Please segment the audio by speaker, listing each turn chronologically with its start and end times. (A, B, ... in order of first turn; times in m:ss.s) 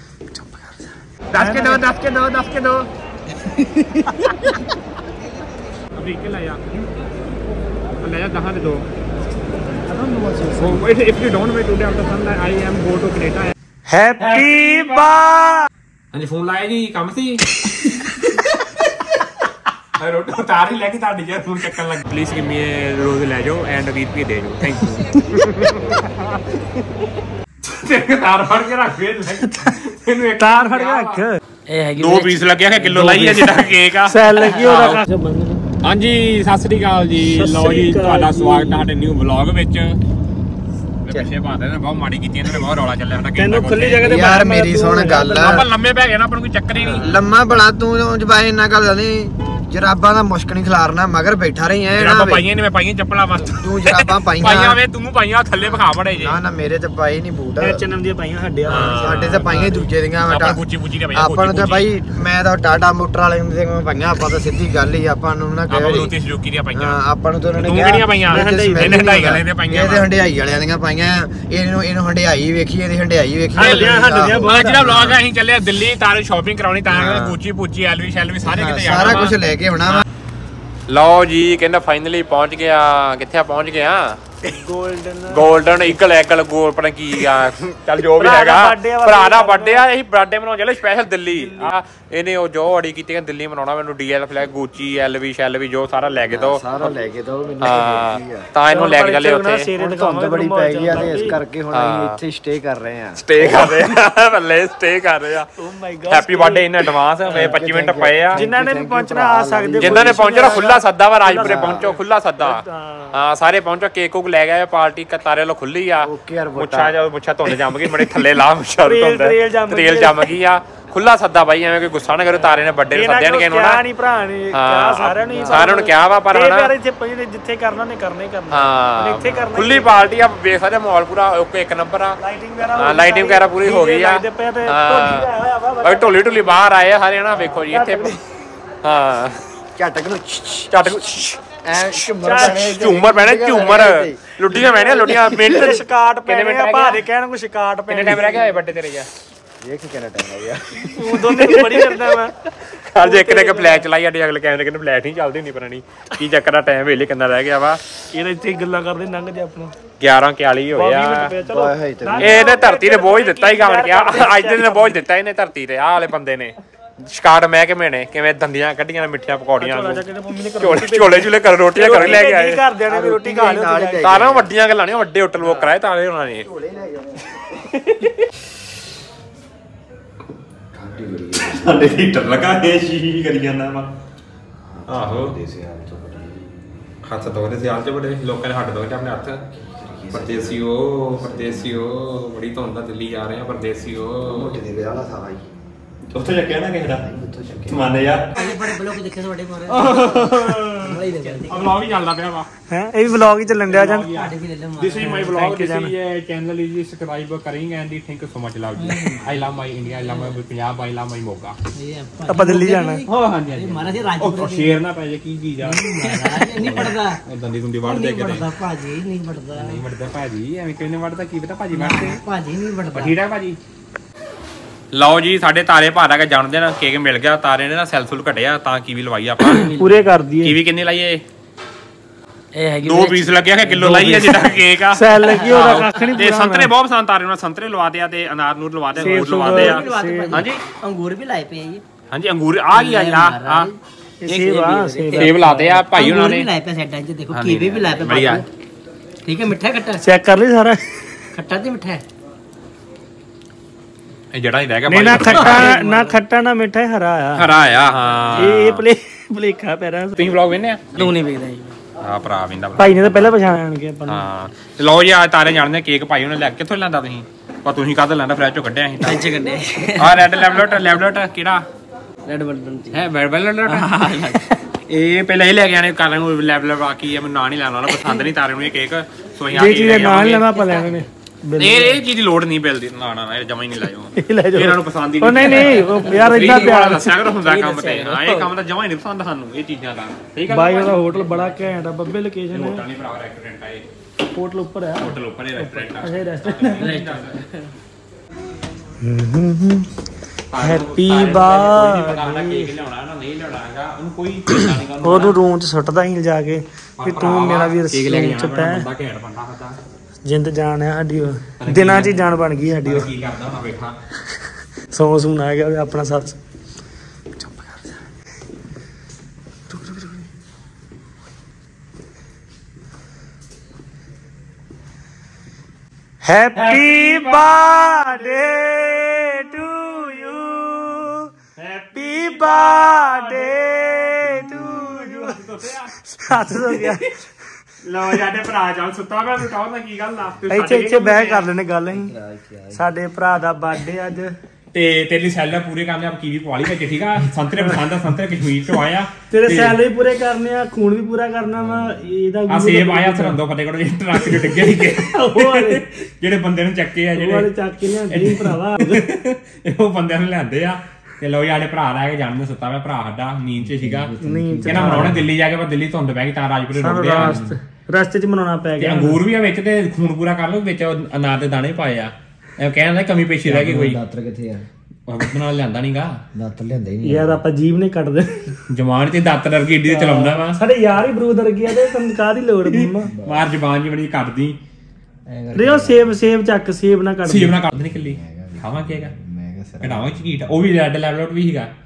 0:00.3-0:00.8 A
0:01.3-0:02.9 B
0:01.3-0:01.8 A
0:05.9-0:06.6 B
0:08.0-0:08.8 B
0:09.8-0:10.8 A
0:10.6-0:13.5 B
0:13.9-0:15.7 A
0:14.2-0:15.1 B
0:16.1-0:18.8 B
0:20.0-0:26.4 B
0:27.6-0:31.2 B
0:30.4-0:31.4 A
0:31.7-0:33.1 C
0:32.0-0:35.0 B
0:33.1-0:33.5 A
0:34.0-0:35.6 A
0:35.8-0:40.0 B
0:37.2-0:38.9 A
0:41.0-0:44.1 B
0:43.4-0:45.6 A
0:44.0-0:45.7 D
0:45.3-0:47.2 B
0:46.7-0:52.4 D
0:51.9-0:56.4 B
0:53.6-0:54.8 D
0:55.6-0:57.8 D
0:57.6-0:59.2 A
0:58.7-1:00.6 D
0:58.7-1:01.9 B
1:01.1-1:06.1 D
1:05.7-1:07.0 B
1:06.7-1:15.2 D
1:07.5-1:10.1 B
1:08.3-1:09.3 A
1:13.6-1:14.9 A
1:13.6-1:20.0 B
1:16.9-1:17.4 D
1:18.4-1:20.0 D
1:20.9-1:24.2 B
1:24.4-1:26.0 A
1:25.3-1:36.8 B
1:28.2-1:29.8 A
1:31.3-1:31.7 A
1:36.3-1:38.5 D
1:37.6-1:39.7 B
1:38.7-1:41.4 A
1:39.8-1:43.8 D
1:41.7-1:42.2 B
1:43.2-1:45.5 B
1:45.6-1:46.7 A
1:46.1-1:48.4 B
1:47.3-1:47.5 A
1:47.3-1:50.7 D
1:48.3-1:53.2 A
1:49.8-1:52.6 B
1:51.4-1:51.9 D
1:53.1-2:03.8 B
1:56.0-1:56.9 D
1:58.8-2:00.3 A
2:02.9-2:10.0 A
2:04.5-2:06.7 B
2:05.3-2:05.6 D
2:08.5-2:12.2 B
2:12.2-2:16.7 A
2:12.7-2:15.3 B
2:15.8-2:18.2 B
2:17.3-2:18.2 A
2:18.8-2:19.4 B
2:19.8-2:21.0 D
2:20.7-2:21.4 B
2:21.6-2:24.3 D
2:22.2-2:22.6 A
2:22.4-2:27.0 B
2:24.5-2:28.5 A
2:27.9-2:29.1 B
2:29.6-2:31.1 D
2:30.9-2:32.3 A
2:31.0-2:32.2 B
2:32.7-2:37.8 B
2:33.0-2:33.8 A
2:38.1-2:39.7 A
2:40.0-2:41.3 B
2:40.7-2:45.0 A
2:41.4-2:42.5 D
2:42.2-2:50.0 B
2:49.6-2:54.2 A
2:50.6-2:52.6 B
2:52.9-2:54.5 D
2:54.0-2:56.5 B
2:55.4-2:55.7 D
2:56.4-2:57.4 D
2:57.8-2:58.1 B
3:00.7-3:01.6 D
3:01.3-3:03.9 B
3:04.6-3:06.5 D
3:04.9-3:05.3 B
3:07.0-3:09.4 B
3:09.6-3:10.6 D
3:10.1-3:14.6 B
3:11.2-3:11.8 D
3:14.2-3:15.5 D
3:16.1-3:17.0 B
3:17.0-3:17.9 D
3:17.7-3:18.7 B
3:18.4-3:21.8 C
3:19.7-3:22.5 B
3:19.9-3:20.6 A
3:22.7-3:24.2 A
3:23.6-3:31.6 B
3:24.0-3:25.3 C
3:25.0-3:25.9 A
3:28.8-3:29.3 C
3:29.9-3:30.4 C
3:31.7-3:34.8 C
3:32.3-3:33.0 A
3:33.0-3:38.6 B
3:35.6-3:37.2 C
3:37.8-3:39.8 C
3:39.5-3:42.2 B
3:41.7-3:43.2 C
3:42.9-3:43.6 B
3:44.9-3:49.8 B
3:49.5-3:50.0 C
3:49.6-3:50.6 A
3:50.4-3:51.2 B
3:52.5-3:54.6 C
3:52.8-4:00.6 B
3:54.9-3:56.7 A
3:55.2-3:55.9 C
3:59.0-4:00.4 A
3:59.0-4:01.8 C
4:02.1-4:03.7 B
4:02.7-4:03.8 C
4:04.2-4:05.8 A
4:04.3-4:08.4 C
4:05.1-4:06.5 B
4:07.3-4:08.4 B
4:09.2-4:10.0 C
4:10.0-4:10.8 A
4:11.3-4:12.0 C
4:14.3-4:15.7 B
4:14.9-4:17.5 A
4:15.2-4:16.2 C
4:17.4-4:18.8 B
4:18.3-4:20.2 A
4:20.2-4:21.1 B
4:20.9-4:21.8 C
4:22.0-4:23.3 B
4:22.8-4:24.3 A
4:24.0-4:29.4 B
4:29.0-4:30.7 C
4:30.0-4:31.6 B
4:32.2-4:33.0 C
4:32.9-4:40.5 B
4:33.6-4:34.4 C
4:39.5-4:42.0 A
4:40.5-4:41.0 C
4:41.6-4:51.7 B
4:44.2-4:47.2 A
4:45.4-4:48.4 C
4:50.5-4:52.8 A
4:52.5-4:53.8 B
4:54.3-4:57.0 A
4:55.0-4:57.4 B
4:56.8-4:57.7 C
4:59.0-4:59.9 A
5:00.5-5:05.3 B
5:00.6-5:02.7 A
5:04.5-5:08.9 A
5:07.0-5:09.8 B
5:10.2-5:13.1 A
5:11.6-5:13.9 B
5:14.9-5:16.4 A
5:17.4-5:17.7 A
5:19.7-5:20.2 A
5:26.2-5:31.3 A
5:26.5-5:28.4 B
5:31.6-5:37.1 B
5:31.9-5:35.3 A
5:36.1-5:37.0 A
5:37.8-5:41.5 B
5:40.5-5:42.1 A
5:41.9-5:42.8 D
5:42.7-5:44.3 A
5:44.7-5:49.8 B
5:49.3-5:53.4 A
5:51.6-5:52.0 D
5:52.5-5:57.5 B
5:54.2-5:55.8 A
5:57.1-5:59.0 A
5:58.1-6:04.1 B
6:03.6-6:05.2 D
6:04.2-6:05.2 A
6:04.6-6:07.4 B
6:06.7-6:09.2 A
6:07.2-6:07.5 D
6:08.8-6:14.0 B
6:13.4-6:14.6 D
6:15.1-6:16.2 B
6:16.3-6:17.4 D
6:17.0-6:18.5 A
6:18.7-6:20.6 B
6:19.8-6:23.1 A
6:22.7-6:24.6 B
6:23.1-6:23.5 D
6:25.2-6:26.1 D
6:25.5-6:27.6 A
6:27.2-6:29.1 B
6:27.9-6:30.4 D
6:29.8-6:31.7 B